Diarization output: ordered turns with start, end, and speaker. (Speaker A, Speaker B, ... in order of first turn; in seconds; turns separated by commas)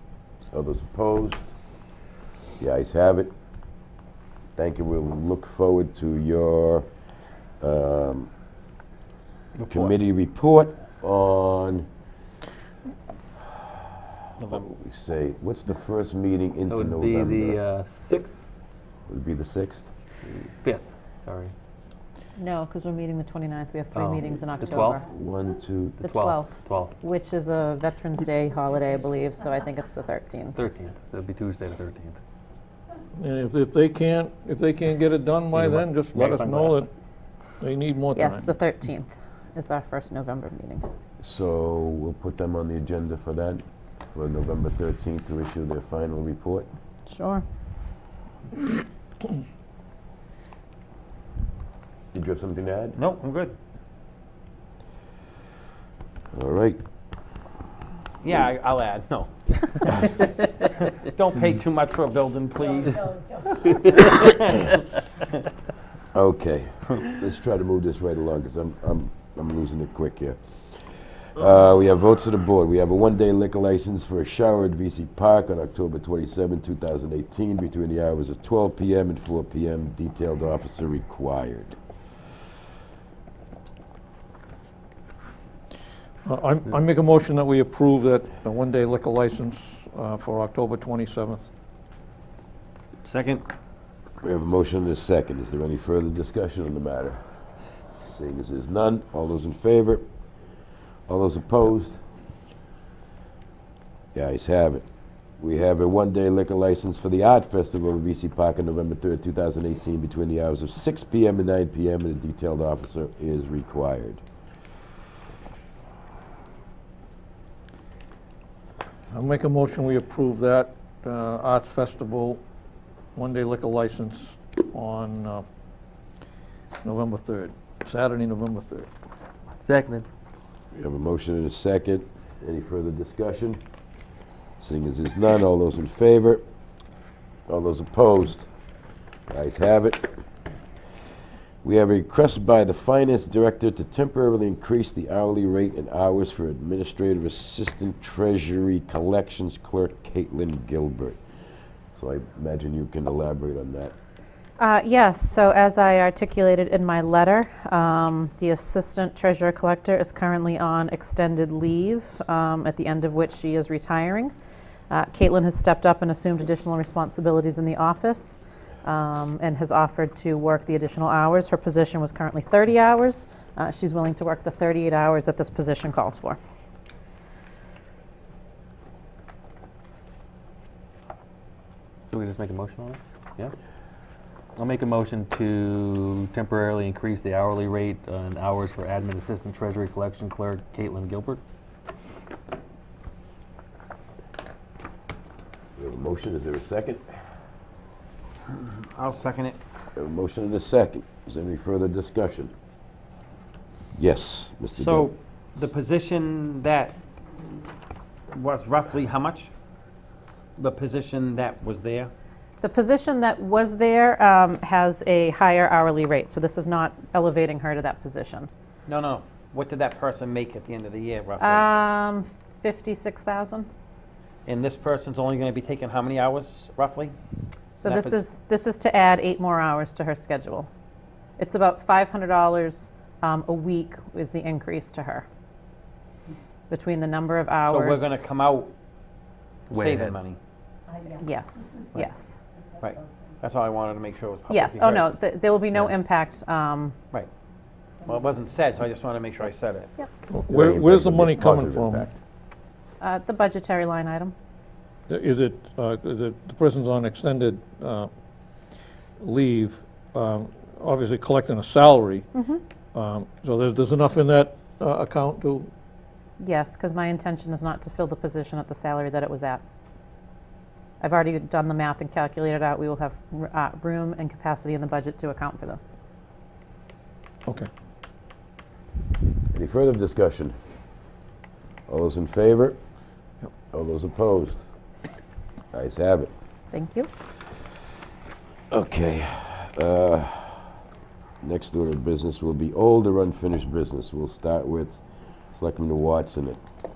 Speaker A: 0.5-1.5, Speaker A: 2.6-3.3, Speaker A: 4.5-6.9, Speaker A: 7.6-8.3, Speaker B: 9.6-9.9, Speaker A: 9.7-11.9, Speaker A: 14.5-17.6, Speaker B: 16.7-18.3, Speaker A: 19.1-19.9, Speaker B: 20.3-21.5, Speaker C: 22.4-25.1, Speaker B: 23.9-25.0, Speaker A: 25.1-26.0, Speaker B: 26.0-26.9, Speaker C: 26.0-30.6, Speaker B: 30.5-32.2, Speaker D: 33.2-36.9, Speaker B: 35.5-36.8, Speaker D: 37.6-38.5, Speaker C: 38.1-40.9, Speaker A: 41.2-46.7, Speaker C: 47.1-47.4, Speaker A: 52.1-53.0, Speaker E: 52.9-53.5, Speaker A: 56.3-56.8, Speaker E: 58.2-64.8, Speaker A: 66.1-81.8, Speaker D: 86.2-91.5, Speaker E: 93.0-93.4, Speaker A: 94.2-97.2, Speaker A: 97.9-100.0, Speaker A: 101.1-102.0, Speaker A: 104.1-104.8, Speaker A: 105.4-114.2, Speaker D: 119.1-122.4, Speaker D: 123.2-125.4, Speaker D: 126.8-128.9, Speaker B: 129.6-130.1, Speaker A: 130.7-133.6, Speaker A: 134.6-136.4, Speaker A: 137.5-138.5, Speaker A: 139.3-140.1, Speaker A: 141.6-151.2, Speaker A: 151.9-153.9, Speaker C: 154.6-164.3, Speaker C: 164.9-176.4, Speaker B: 182.1-183.5, Speaker B: 184.6-191.4, Speaker A: 195.8-197.0, Speaker E: 198.5-199.6, Speaker A: 199.9-202.5, Speaker A: 203.9-205.1, Speaker E: 204.7-207.0, Speaker E: 208.3-209.5, Speaker E: 210.6-212.1, Speaker C: 212.6-218.5, Speaker E: 218.9-221.7, Speaker C: 221.4-223.7, Speaker E: 224.4-227.1, Speaker C: 227.8-230.7, Speaker E: 227.8-228.2, Speaker C: 231.4-235.2, Speaker C: 236.7-238.1, Speaker E: 237.7-238.7, Speaker E: 239.7-240.4, Speaker B: 239.7-240.2, Speaker C: 241.2-242.4, Speaker E: 242.8-245.1, Speaker C: 244.5-246.9, Speaker E: 248.0-249.9, Speaker D: 250.3-252.1, Speaker A: 250.5-252.2, Speaker C: 253.0-254.3, Speaker D: 255.1-258.1, Speaker D: 259.2-262.2, Speaker C: 262.3-262.6, Speaker D: 262.9-265.7, Speaker C: 266.4-269.6, Speaker C: 271.0-275.9, Speaker A: 279.5-280.6, Speaker A: 281.9-282.8, Speaker A: 283.7-284.6, Speaker A: 285.7-286.3, Speaker C: 286.7-287.1, Speaker A: 288.7-290.7, Speaker A: 291.4-295.0, Speaker A: 295.5-296.6